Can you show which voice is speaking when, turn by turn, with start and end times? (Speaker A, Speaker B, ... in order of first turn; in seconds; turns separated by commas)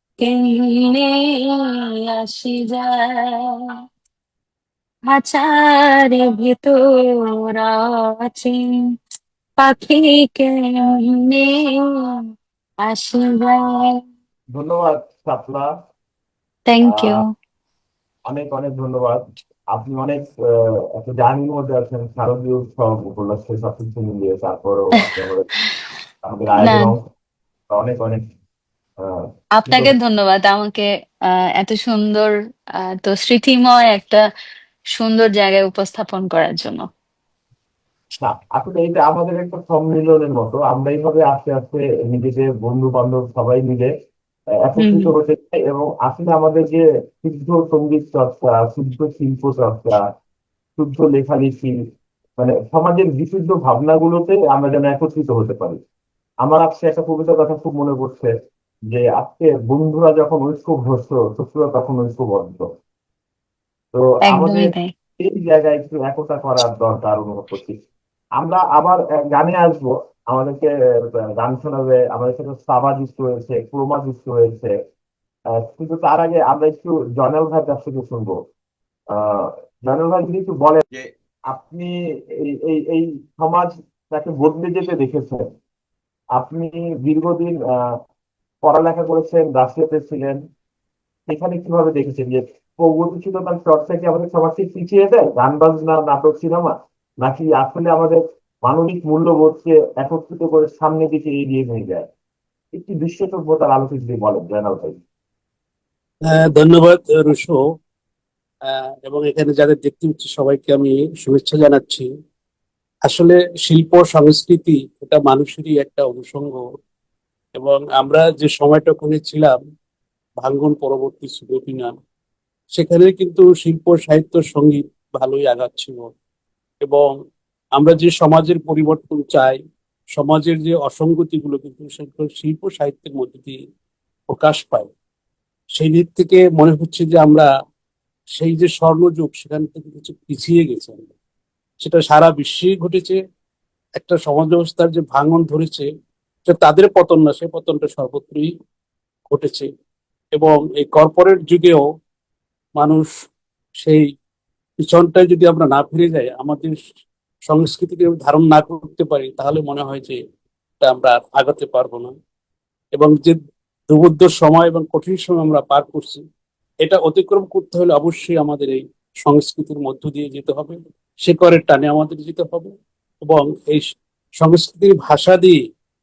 Speaker A: 0.2-3.4, Speaker A: 5.1-6.8, Speaker A: 7.5-8.8, Speaker A: 9.6-11.8, Speaker A: 12.8-14.0, Speaker B: 14.5-15.7, Speaker A: 16.7-17.3, Speaker B: 16.8-17.2, Speaker B: 18.3-25.5, Speaker B: 26.2-27.0, Speaker A: 26.6-26.9, Speaker B: 27.7-28.2, Speaker B: 29.0-29.9, Speaker A: 29.6-30.9, Speaker A: 31.6-34.2, Speaker A: 35.0-36.8, Speaker B: 38.2-43.9, Speaker B: 44.6-50.0, Speaker A: 44.8-45.1, Speaker B: 50.8-51.8, Speaker B: 52.4-55.8, Speaker B: 56.4-58.3, Speaker B: 58.9-62.6, Speaker B: 63.9-67.8, Speaker A: 64.2-64.9, Speaker B: 68.4-74.7, Speaker B: 75.5-78.4, Speaker B: 79.1-80.8, Speaker B: 81.5-81.9, Speaker B: 82.4-85.4, Speaker B: 86.3-87.9, Speaker B: 88.6-90.4, Speaker B: 91.3-102.1, Speaker B: 102.7-105.0, Speaker C: 106.3-107.6, Speaker C: 108.7-112.0, Speaker C: 113.1-116.6, Speaker C: 117.5-119.6, Speaker C: 120.4-121.9, Speaker C: 122.8-126.1, Speaker C: 126.8-127.1, Speaker C: 127.8-129.6, Speaker C: 130.2-133.6, Speaker C: 134.3-134.9, Speaker C: 135.8-137.5, Speaker C: 138.3-141.1, Speaker C: 141.8-143.2, Speaker C: 143.9-145.8, Speaker C: 146.4-148.5, Speaker C: 149.3-149.7, Speaker C: 150.3-151.8, Speaker C: 152.8-153.1, Speaker C: 154.8-156.8, Speaker C: 157.5-160.2, Speaker C: 160.8-162.1, Speaker C: 162.9-163.3, Speaker C: 163.9-166.2, Speaker C: 166.8-172.7, Speaker C: 173.2-173.8, Speaker C: 174.4-175.6